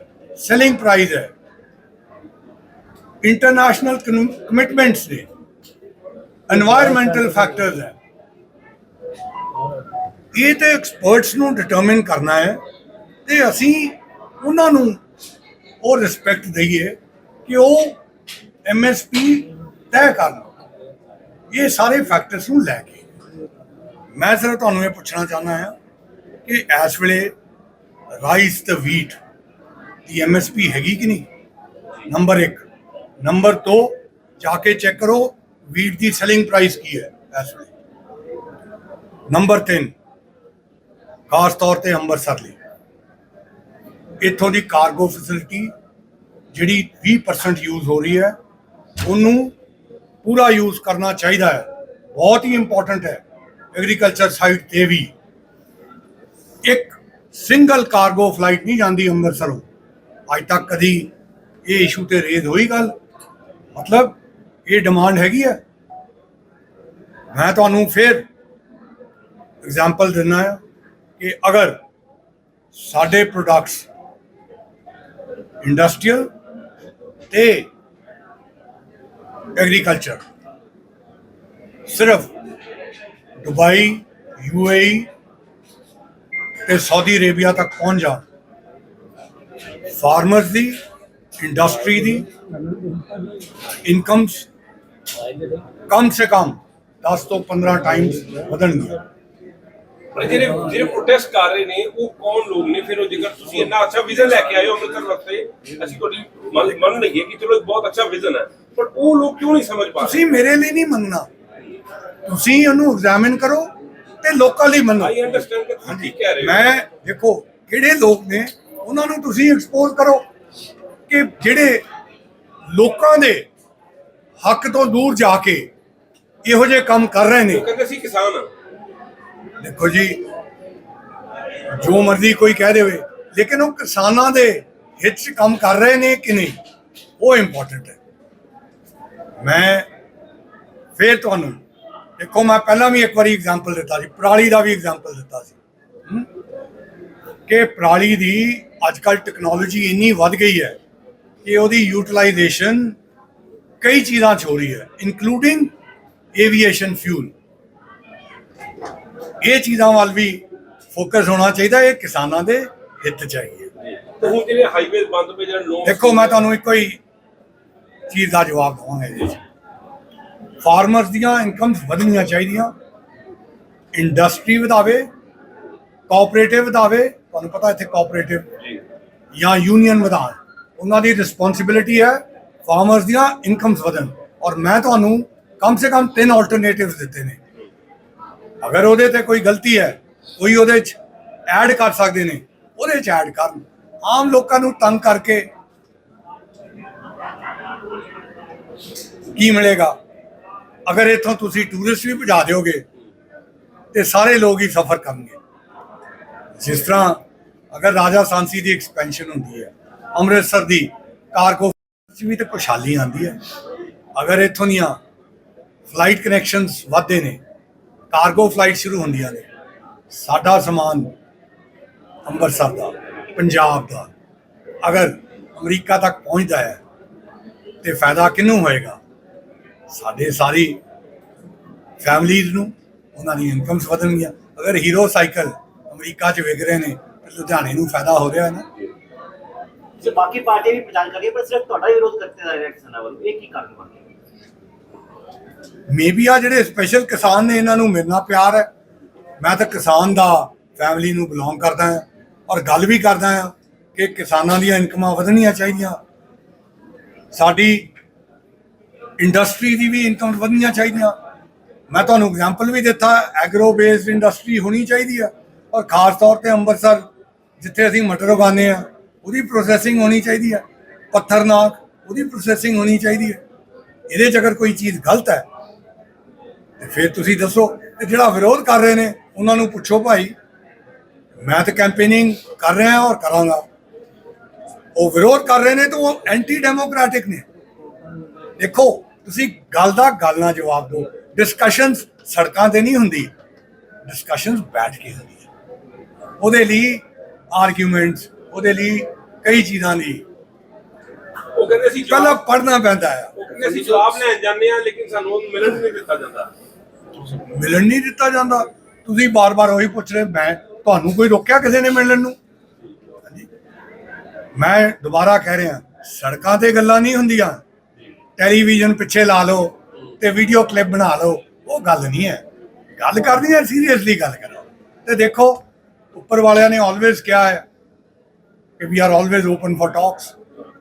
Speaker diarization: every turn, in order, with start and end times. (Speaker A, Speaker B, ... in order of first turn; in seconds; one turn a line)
Speaker A: 0.3-1.3
Speaker A: 3.2-5.3
Speaker A: 6.5-8.0
Speaker A: 10.3-12.6
Speaker A: 13.2-15.0
Speaker A: 15.8-18.0
Speaker A: 18.6-20.5
Speaker A: 21.5-23.0
Speaker A: 24.1-25.8
Speaker A: 26.4-27.3
Speaker A: 28.1-29.2
Speaker A: 30.1-31.3
Speaker A: 32.1-32.6
Speaker A: 33.2-37.7
Speaker A: 39.3-39.9
Speaker A: 41.3-42.6
Speaker A: 44.2-45.7
Speaker A: 46.5-48.4
Speaker A: 49.0-49.5
Speaker A: 50.2-53.2
Speaker A: 53.7-55.1
Speaker A: 56.6-59.6
Speaker A: 60.3-61.1
Speaker A: 61.6-62.9
Speaker A: 63.7-65.6
Speaker A: 67.3-68.2
Speaker A: 69.6-70.6
Speaker A: 71.2-71.8
Speaker A: 72.7-73.9
Speaker A: 75.6-76.3
Speaker A: 77.3-77.7
Speaker A: 79.5-80.2
Speaker A: 81.8-82.3
Speaker A: 83.4-85.1
Speaker A: 86.7-88.2
Speaker A: 89.9-90.8
Speaker A: 91.4-92.3
Speaker A: 93.8-94.5
Speaker A: 95.9-99.0
Speaker B: 100.1-110.2
Speaker A: 110.0-111.3
Speaker A: 112.2-115.2
Speaker B: 115.0-116.7
Speaker A: 115.8-120.2
Speaker A: 121.1-121.8
Speaker A: 122.7-123.5
Speaker A: 124.4-125.7
Speaker A: 126.4-127.6
Speaker B: 127.5-128.5
Speaker A: 129.6-130.2
Speaker A: 131.7-136.5
Speaker A: 137.2-138.0
Speaker A: 139.4-139.9
Speaker A: 140.9-141.6
Speaker A: 142.2-145.6
Speaker A: 147.5-150.8
Speaker A: 151.4-153.0
Speaker A: 153.8-155.7
Speaker A: 156.3-157.3
Speaker A: 159.4-163.7
Speaker B: 164.0-166.4
Speaker A: 165.8-167.0
Speaker A: 168.1-169.4
Speaker A: 170.6-172.7
Speaker A: 173.9-175.1
Speaker A: 176.1-178.5
Speaker A: 179.3-187.4
Speaker A: 188.6-195.5
Speaker A: 199.3-200.0
Speaker A: 200.8-202.8
Speaker A: 203.9-205.4
Speaker A: 206.6-207.2
Speaker A: 207.7-213.4
Speaker A: 214.1-215.0
Speaker A: 215.9-217.4
Speaker A: 218.1-219.5
Speaker A: 220.1-221.1
Speaker A: 222.2-224.1
Speaker A: 224.8-226.8
Speaker A: 227.8-229.0
Speaker A: 229.9-230.8
Speaker A: 232.0-238.7
Speaker C: 240.0-244.0
Speaker A: 245.9-248.7
Speaker A: 249.4-256.0
Speaker A: 257.3-257.9
Speaker A: 259.2-261.1
Speaker A: 261.9-267.1
Speaker A: 267.6-273.4
Speaker A: 274.1-275.5
Speaker A: 276.8-280.3
Speaker A: 281.4-283.6
Speaker A: 284.9-287.4
Speaker A: 288.6-293.3
Speaker A: 294.1-295.5
Speaker A: 296.4-300.2
Speaker B: 301.5-302.4
Speaker A: 302.0-303.3
Speaker B: 303.4-306.5
Speaker A: 307.4-312.4
Speaker A: 314.5-317.6
Speaker A: 318.4-322.4
Speaker A: 323.0-325.6
Speaker A: 326.1-327.6
Speaker A: 328.8-330.3